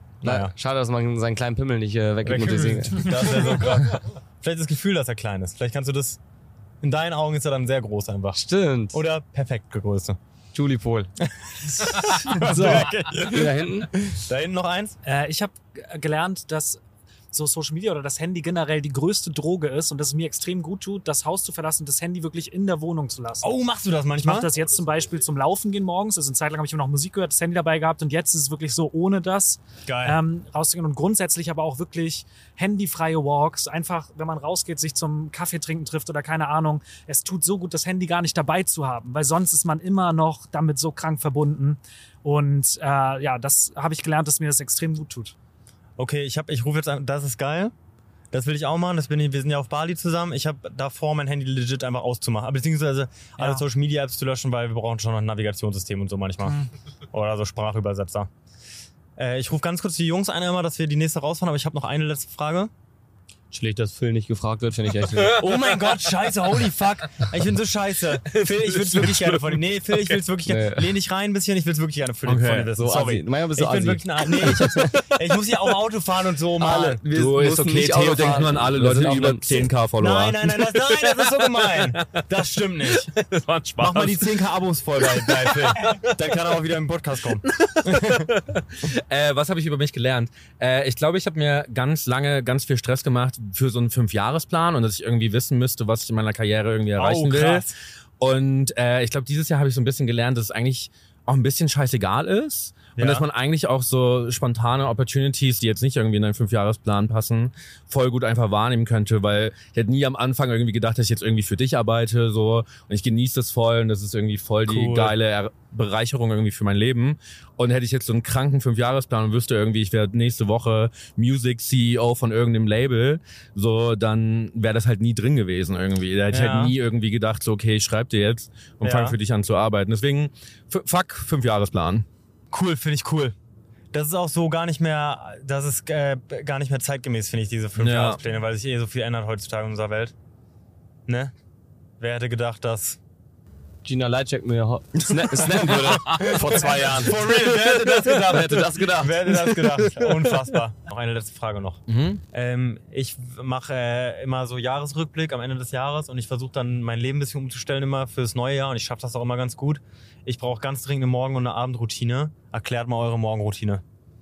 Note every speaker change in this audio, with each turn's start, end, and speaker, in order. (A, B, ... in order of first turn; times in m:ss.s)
0:00.2-0:00.5 A
0:00.2-0:03.7 B
0:02.2-0:06.2 A
0:06.8-0:10.2 A
0:08.3-0:09.0 B
0:10.5-0:11.1 B
0:11.3-0:15.0 A
0:12.4-0:13.9 B
0:15.0-0:16.8 C
0:17.3-0:23.6 C
0:23.4-0:24.5 A
0:24.2-0:45.4 C
0:29.9-0:30.2 A
0:46.0-0:47.7 A
0:48.3-0:58.3 A
0:53.4-0:53.6 C
0:59.2-1:02.7 A
1:03.5-1:05.6 B
1:05.1-1:06.0 D
1:05.3-1:17.0 A
1:08.2-1:10.2 D
1:10.4-1:11.0 B
1:12.2-1:12.7 D
1:12.8-1:15.0 B
1:16.6-1:19.7 B
1:17.1-1:22.2 D
1:20.0-1:23.1 A
1:22.9-1:24.4 D
1:23.8-1:28.3 A
1:25.0-1:26.2 D
1:27.4-1:37.7 D
1:37.0-1:37.8 A
1:38.2-2:12.1 D
1:43.0-1:43.3 A
1:54.7-1:55.1 A
2:06.3-2:06.8 A
2:08.8-2:09.2 A
2:12.5-2:13.3 A
2:13.9-2:20.1 A
2:17.8-2:18.2 D
2:21.1-2:21.3 A
2:22.0-2:23.0 A
2:23.8-2:27.3 B
2:25.0-2:28.2 D
2:26.0-2:43.8 A
2:28.1-2:29.4 B
2:29.4-2:30.4 D
2:31.9-2:32.2 D